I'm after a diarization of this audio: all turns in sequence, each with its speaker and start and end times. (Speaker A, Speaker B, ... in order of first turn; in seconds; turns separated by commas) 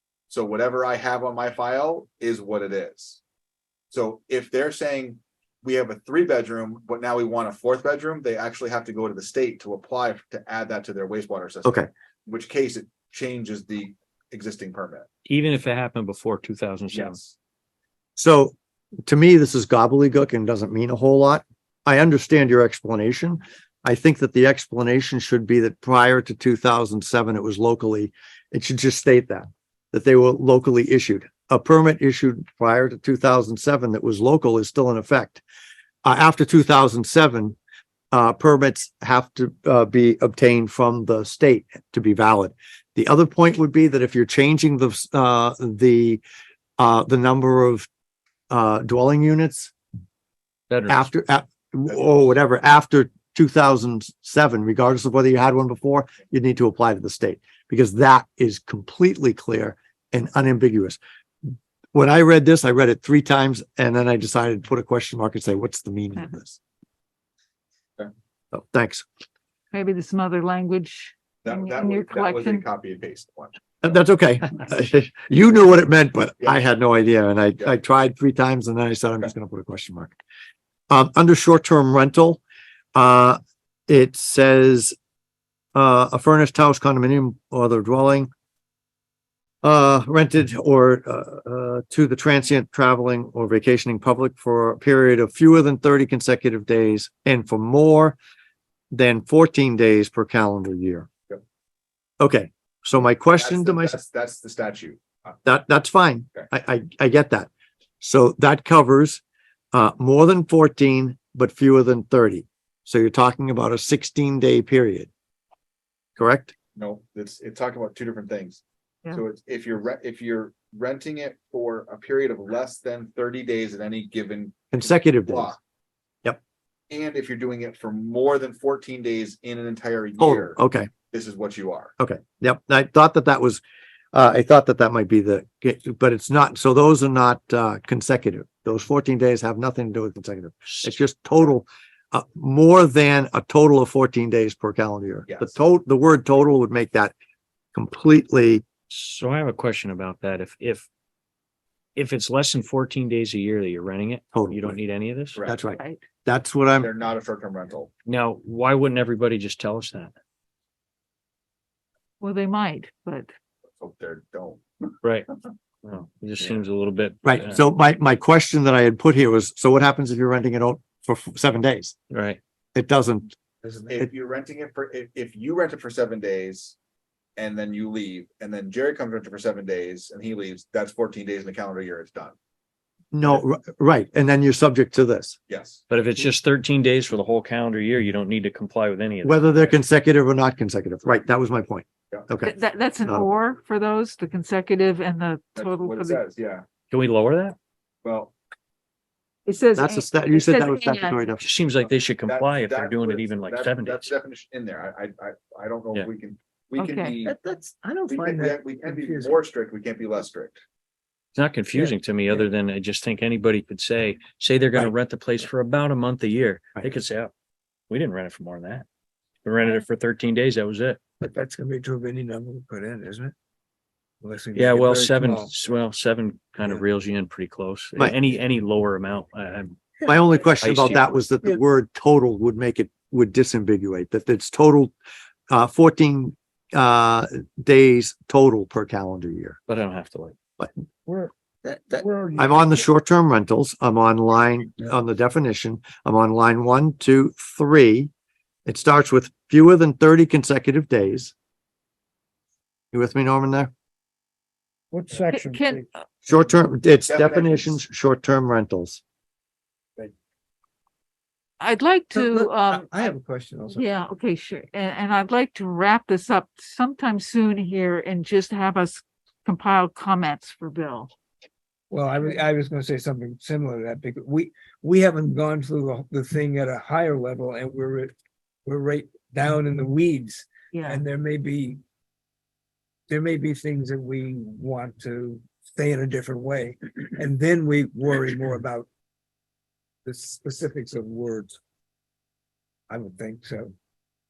Speaker A: 0.3-3.2, Speaker A: 3.9-15.1, Speaker B: 15.2-17.1, Speaker A: 16.9-17.4, Speaker C: 18.1-18.5, Speaker C: 19.1-35.4, Speaker C: 36.0-37.5, Speaker C: 38.1-46.2, Speaker C: 46.8-47.9, Speaker C: 48.5-49.7, Speaker B: 50.7-51.1, Speaker C: 50.9-66.6, Speaker C: 68.5-69.0, Speaker D: 69.7-72.6, Speaker A: 71.4-73.5, Speaker C: 73.8-80.1, Speaker C: 80.9-82.4, Speaker C: 82.9-84.9, Speaker C: 85.7-88.3, Speaker C: 89.6-98.2, Speaker C: 98.9-101.1, Speaker C: 102.2-104.0, Speaker A: 103.3-105.3, Speaker C: 105.4-107.5, Speaker C: 108.0-109.2, Speaker C: 109.7-115.1, Speaker C: 116.2-116.5, Speaker A: 116.7-125.6, Speaker C: 124.7-125.5, Speaker A: 126.9-130.6, Speaker C: 130.2-130.9, Speaker A: 131.1-131.9, Speaker C: 132.0-133.6, Speaker C: 134.1-147.1, Speaker A: 145.3-145.6, Speaker C: 147.7-148.6, Speaker B: 148.9-150.9, Speaker B: 151.9-155.4, Speaker C: 154.3-154.8, Speaker A: 155.3-155.6, Speaker C: 155.4-156.9, Speaker A: 156.8-157.9, Speaker B: 158.1-160.1, Speaker D: 162.2-163.3, Speaker A: 163.8-164.6, Speaker B: 165.0-165.3, Speaker B: 165.8-167.6, Speaker C: 167.2-171.9, Speaker B: 172.1-172.4, Speaker C: 172.7-173.3, Speaker E: 173.6-173.9, Speaker A: 173.9-176.8, Speaker A: 177.4-182.3, Speaker C: 183.1-185.4, Speaker A: 185.5-185.8, Speaker B: 185.9-189.4, Speaker C: 189.2-193.3, Speaker D: 192.4-196.2, Speaker A: 195.6-196.6, Speaker B: 196.9-197.6, Speaker A: 198.0-198.3, Speaker D: 199.4-201.2, Speaker C: 199.7-201.4, Speaker B: 201.4-204.1, Speaker A: 202.2-207.3, Speaker D: 206.8-207.2, Speaker E: 207.2-209.3, Speaker A: 208.1-210.6, Speaker B: 211.3-217.3, Speaker B: 217.9-218.8, Speaker B: 219.4-221.0, Speaker E: 221.2-223.3, Speaker E: 224.2-225.5, Speaker B: 224.5-229.8, Speaker C: 230.0-234.9, Speaker B: 230.6-231.1, Speaker C: 235.5-239.6, Speaker B: 239.7-240.3, Speaker E: 241.1-242.8, Speaker C: 242.3-248.1, Speaker C: 248.7-251.3, Speaker C: 252.9-253.7, Speaker E: 254.9-255.8, Speaker D: 255.3-255.9, Speaker C: 256.2-259.0, Speaker A: 257.1-257.8, Speaker D: 261.6-262.8, Speaker E: 262.1-264.0, Speaker D: 263.7-271.1, Speaker E: 271.9-278.1, Speaker E: 278.6-281.8, Speaker D: 280.7-281.0, Speaker E: 283.1-288.9, Speaker E: 290.0-291.6, Speaker E: 292.9-293.7